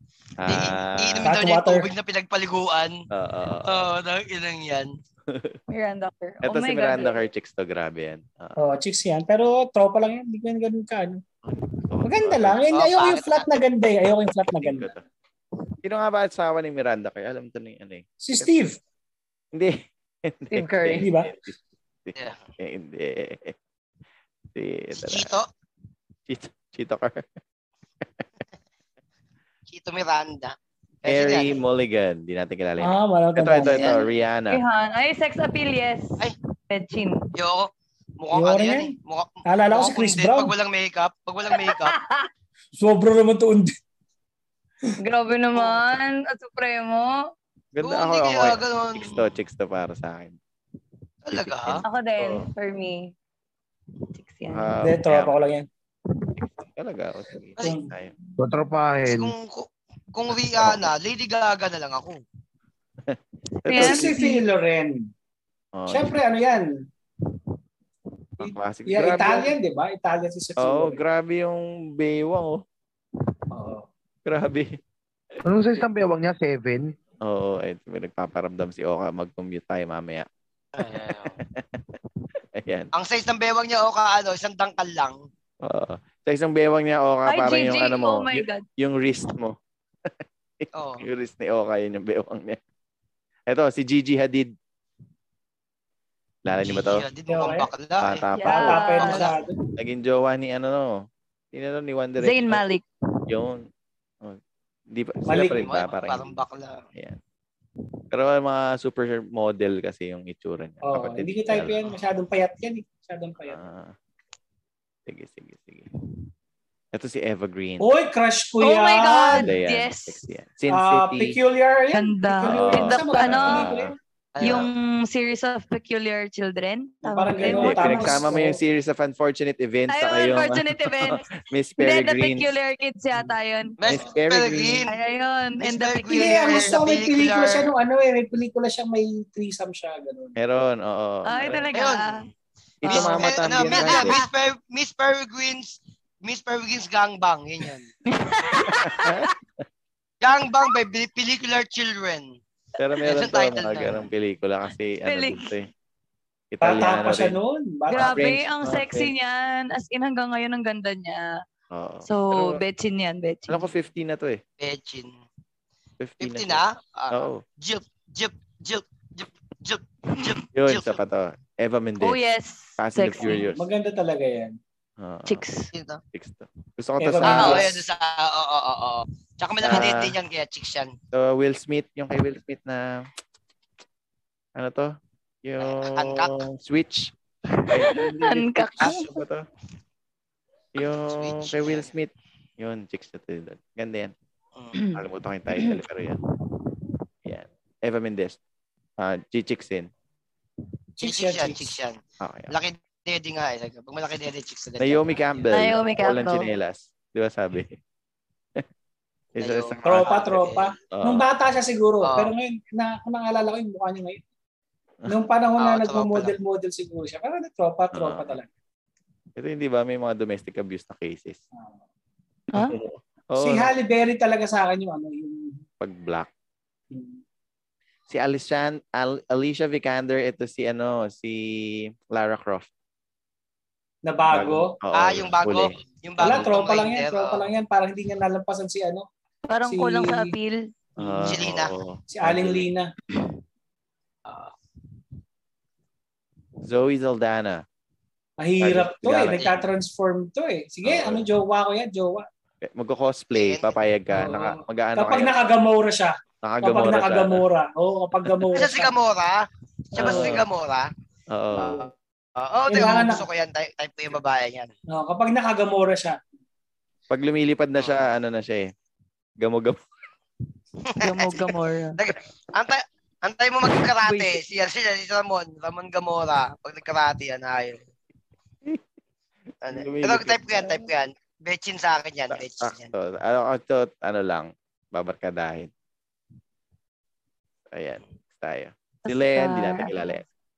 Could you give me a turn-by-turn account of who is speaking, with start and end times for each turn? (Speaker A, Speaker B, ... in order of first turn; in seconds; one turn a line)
Speaker A: 0.4-1.3
Speaker B: 0.5-3.0
Speaker C: 1.2-1.9
Speaker A: 3.1-3.9
Speaker B: 3.7-4.9
Speaker A: 5.3-5.6
Speaker D: 5.7-7.2
Speaker A: 6.4-8.6
Speaker C: 8.6-11.2
Speaker A: 11.5-12.6
Speaker C: 12.0-14.9
Speaker B: 12.7-13.5
Speaker A: 14.4-15.1
Speaker A: 15.8-18.7
Speaker C: 18.2-18.8
Speaker A: 19.5-23.6
Speaker D: 20.5-21.1
Speaker C: 21.0-21.3
Speaker A: 24.6-25.4
Speaker B: 25.0-25.5
Speaker A: 26.3-27.3
Speaker B: 29.7-31.6
Speaker A: 31.1-34.6
Speaker C: 32.8-34.0
Speaker B: 33.6-34.1
Speaker D: 34.5-37.3
Speaker B: 37.4-42.0
Speaker C: 38.3-38.9
Speaker C: 39.5-40.5
Speaker D: 41.7-42.3
Speaker C: 42.7-43.7
Speaker D: 45.0-47.2
Speaker B: 45.5-45.8
Speaker A: 47.7-50.4
Speaker B: 47.8-49.3
Speaker B: 51.2-51.8
Speaker A: 51.3-52.5
Speaker D: 51.8-53.1
Speaker D: 54.1-54.7
Speaker A: 54.5-55.4
Speaker C: 54.8-55.7
Speaker A: 56.4-58.1
Speaker C: 57.6-57.9
Speaker E: 58.4-59.4
Speaker B: 59.0-62.2
Speaker A: 60.6-60.9
Speaker A: 63.1-64.2
Speaker D: 63.6-64.4
Speaker C: 63.8-65.1
Speaker A: 65.8-66.2
Speaker C: 65.9-66.7
Speaker C: 68.4-71.0
Speaker A: 68.4-69.5
Speaker A: 70.6-72.6
Speaker C: 73.5-73.9
Speaker A: 74.2-74.8
Speaker E: 75.5-76.9
Speaker A: 77.2-81.8
Speaker B: 80.8-81.4
Speaker A: 82.5-82.9
Speaker B: 82.9-85.2
Speaker A: 85.6-89.6
Speaker D: 87.3-88.7
Speaker A: 90.6-92.6
Speaker B: 90.8-91.1
Speaker A: 93.5-94.5
Speaker A: 96.5-97.0
Speaker B: 96.5-98.3
Speaker C: 97.3-97.7
Speaker A: 98.0-99.2
Speaker D: 98.3-99.3
Speaker C: 98.5-99.6
Speaker B: 99.0-99.3
Speaker A: 99.8-101.0
Speaker A: 101.5-102.7
Speaker D: 102.2-102.8
Speaker A: 103.3-103.7
Speaker A: 104.9-106.4
Speaker C: 105.3-105.7
Speaker B: 105.5-106.8
Speaker A: 108.1-111.8
Speaker C: 110.9-113.6
Speaker A: 113.4-114.0
Speaker A: 115.1-115.9
Speaker A: 116.9-117.9
Speaker C: 117.8-119.5
Speaker D: 118.6-120.2
Speaker A: 119.3-121.4
Speaker C: 120.7-123.9
Speaker D: 121.9-128.3
Speaker A: 122.5-124.7
Speaker B: 124.3-124.7
Speaker C: 127.0-128.6
Speaker A: 127.4-132.6
Speaker D: 129.9-131.3
Speaker D: 131.8-133.8
Speaker B: 133.8-134.9
Speaker A: 133.9-134.8
Speaker D: 134.9-136.7
Speaker B: 135.6-137.7
Speaker C: 136.1-140.4
Speaker A: 140.4-141.8
Speaker D: 141.2-142.3
Speaker B: 141.7-142.3
Speaker A: 142.8-144.2
Speaker B: 142.8-147.9
Speaker D: 142.9-144.2
Speaker D: 148.1-149.3
Speaker A: 148.8-149.3
Speaker B: 150.2-152.3
Speaker A: 152.8-155.7
Speaker B: 153.0-154.0
Speaker D: 155.1-155.5
Speaker A: 156.5-157.4
Speaker C: 156.6-158.4
Speaker D: 157.9-161.3
Speaker A: 157.9-159.1
Speaker A: 161.7-162.6
Speaker D: 162.1-163.7
Speaker A: 163.5-164.4
Speaker B: 164.6-165.1
Speaker A: 166.0-167.4
Speaker B: 166.2-171.0
Speaker A: 170.5-172.2
Speaker D: 172.0-173.4
Speaker A: 172.8-173.7
Speaker C: 173.3-174.6
Speaker A: 175.0-175.4
Speaker D: 175.3-175.7
Speaker B: 175.7-176.0
Speaker A: 176.1-177.8
Speaker C: 177.0-177.7
Speaker B: 177.2-180.9
Speaker A: 179.6-180.2
Speaker A: 181.1-183.1
Speaker A: 184.6-184.9
Speaker A: 185.4-187.1
Speaker B: 185.6-186.4
Speaker D: 187.5-189.0
Speaker A: 187.7-189.5
Speaker B: 188.8-189.2
Speaker A: 190.8-194.1
Speaker B: 190.9-191.9
Speaker D: 194.7-195.0
Speaker A: 194.9-196.2
Speaker A: 197.2-198.4
Speaker A: 199.0-199.9
Speaker C: 201.0-201.7
Speaker B: 201.0-202.0
Speaker A: 202.2-202.5
Speaker B: 202.5-205.5
Speaker A: 204.8-207.8
Speaker D: 205.5-206.5
Speaker A: 209.3-210.3
Speaker B: 209.4-210.7
Speaker C: 209.8-214.2
Speaker A: 210.9-211.3
Speaker B: 212.0-212.3
Speaker C: 215.1-218.5
Speaker B: 215.6-216.3
Speaker A: 217.9-218.4
Speaker A: 219.4-221.4
Speaker C: 221.6-221.8
Speaker D: 222.5-222.8
Speaker A: 222.6-223.7
Speaker C: 223.4-225.6
Speaker A: 225.8-226.3
Speaker C: 226.9-227.2
Speaker A: 228.1-232.7
Speaker C: 234.1-234.8
Speaker A: 234.3-236.5
Speaker B: 234.9-237.5
Speaker C: 236.2-239.1
Speaker D: 239.5-240.6
Speaker C: 239.7-240.3
Speaker A: 241.0-242.7
Speaker B: 241.2-241.7
Speaker C: 242.1-242.9
Speaker B: 244.3-244.5
Speaker A: 246.6-247.6
Speaker C: 248.4-252.2
Speaker A: 248.6-249.6
Speaker B: 249.3-249.6
Speaker A: 250.8-251.3
Speaker A: 252.6-255.5
Speaker B: 253.3-253.8
Speaker C: 254.1-258.9
Speaker A: 256.4-257.4
Speaker B: 258.5-260.9
Speaker A: 260.0-260.4
Speaker C: 260.0-260.4
Speaker A: 261.3-261.9
Speaker B: 261.6-264.7
Speaker C: 262.7-263.2
Speaker C: 264.9-266.2
Speaker A: 267.1-268.7
Speaker B: 267.8-268.1
Speaker A: 269.4-269.8
Speaker B: 270.9-277.8
Speaker D: 271.0-272.0
Speaker D: 274.0-274.4
Speaker B: 279.6-282.9
Speaker A: 279.6-280.9
Speaker A: 282.3-285.7
Speaker A: 287.7-290.2
Speaker D: 289.1-289.9